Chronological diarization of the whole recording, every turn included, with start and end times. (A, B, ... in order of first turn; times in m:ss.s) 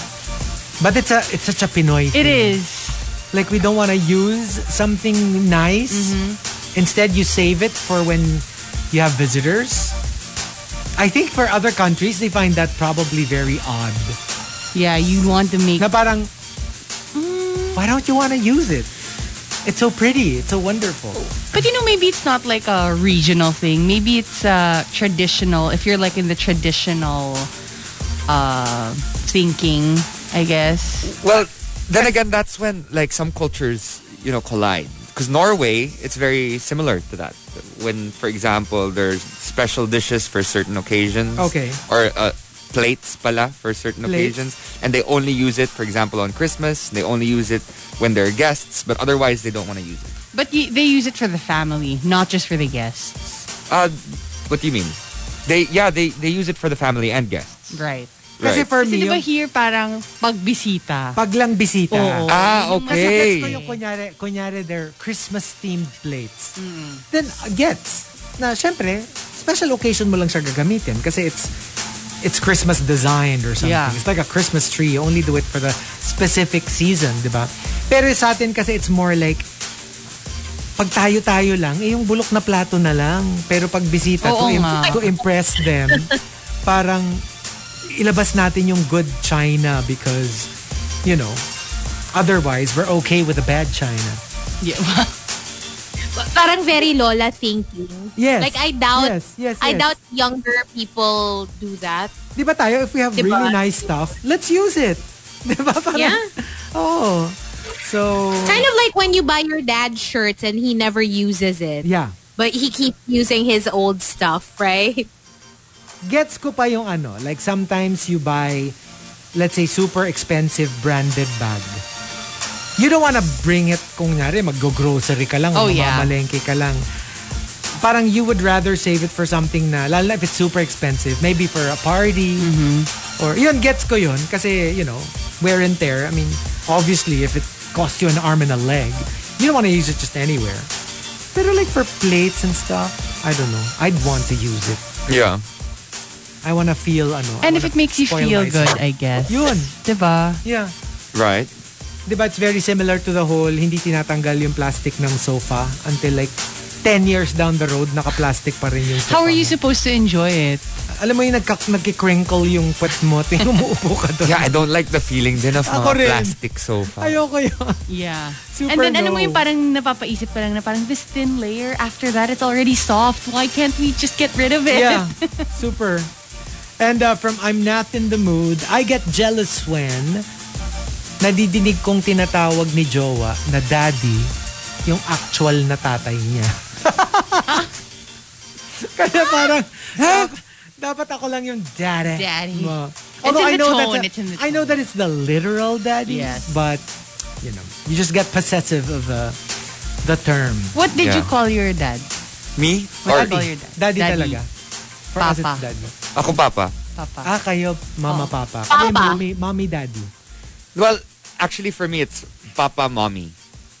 0:00.8-0:02.6 A
0:02.1-0:03.0 B
0:03.3-0:06.2 A
0:05.9-0:06.4 B
0:06.7-0:10.0 A
0:11.0-0:14.2 A
0:14.7-0:15.9 B
0:15.8-0:16.3 A
0:17.1-0:17.8 B
0:17.7-0:18.9 A
0:19.6-0:21.6 A
0:21.3-0:27.5 B
0:28.3-0:31.1 B
0:31.0-0:50.2 C
0:41.4-0:41.8 A
0:44.0-0:44.4 A
0:50.3-0:53.4 B
0:53.7-0:57.8 C
0:57.7-0:58.1 B
0:58.4-0:58.7 C
0:58.4-0:59.2 A
0:58.6-1:01.2 B
1:01.2-1:06.5 A
1:01.9-1:03.8 B
1:02.3-1:03.6 C
1:06.6-1:07.0 B
1:07.1-1:11.5 A
1:12.2-1:19.5 A
1:13.6-1:14.0 B
1:20.8-1:26.1 A
1:24.2-1:25.2 B
1:26.6-1:27.2 A
1:27.8-1:30.5 A
1:31.0-1:31.4 A
1:32.1-1:34.2 A
1:34.6-1:35.1 B
1:36.1-1:42.1 D
1:38.2-1:39.9 A
1:42.4-1:48.7 A
1:43.2-1:43.6 D
1:45.9-1:46.2 D
1:48.4-1:51.8 D
1:51.8-1:52.1 A
1:52.4-1:55.1 D
1:56.0-1:58.7 A
1:59.3-2:01.8 A
2:02.8-2:06.8 A
2:05.5-2:06.1 B
2:07.8-2:12.5 A
2:12.4-2:12.9 B
2:13.2-2:20.7 A
2:21.3-2:24.8 A
2:25.1-2:25.4 C
2:26.4-2:29.7 A
2:27.4-2:30.4 B
2:30.4-2:30.7 A
2:31.1-2:31.5 C
2:32.1-2:39.5 A
2:39.0-2:40.6 B
2:40.9-2:44.5 A
2:44.2-2:47.2 C
2:45.6-2:46.4 A
2:46.9-2:47.8 A
2:47.9-2:55.5 B
2:48.4-2:49.4 A
2:54.7-2:56.1 A
2:56.8-3:00.2 A
3:01.2-3:04.3 A
3:04.8-3:07.7 A
3:08.8-3:16.8 A
3:10.0-3:10.3 C
3:12.1-3:14.8 B
3:16.0-3:16.5 B
3:17.4-3:19.4 A
3:20.0-3:20.8 A
3:20.7-3:22.1 B
3:21.0-3:21.3 C
3:22.6-3:23.4 C
3:23.0-3:24.4 B
3:23.0-3:24.5 A
3:25.1-3:25.9 A
3:25.2-3:25.7 B
3:26.1-3:26.7 C
3:27.0-3:27.3 B
3:27.2-3:30.1 A
3:28.1-3:28.3 B
3:28.7-3:29.2 D
3:30.7-3:33.3 C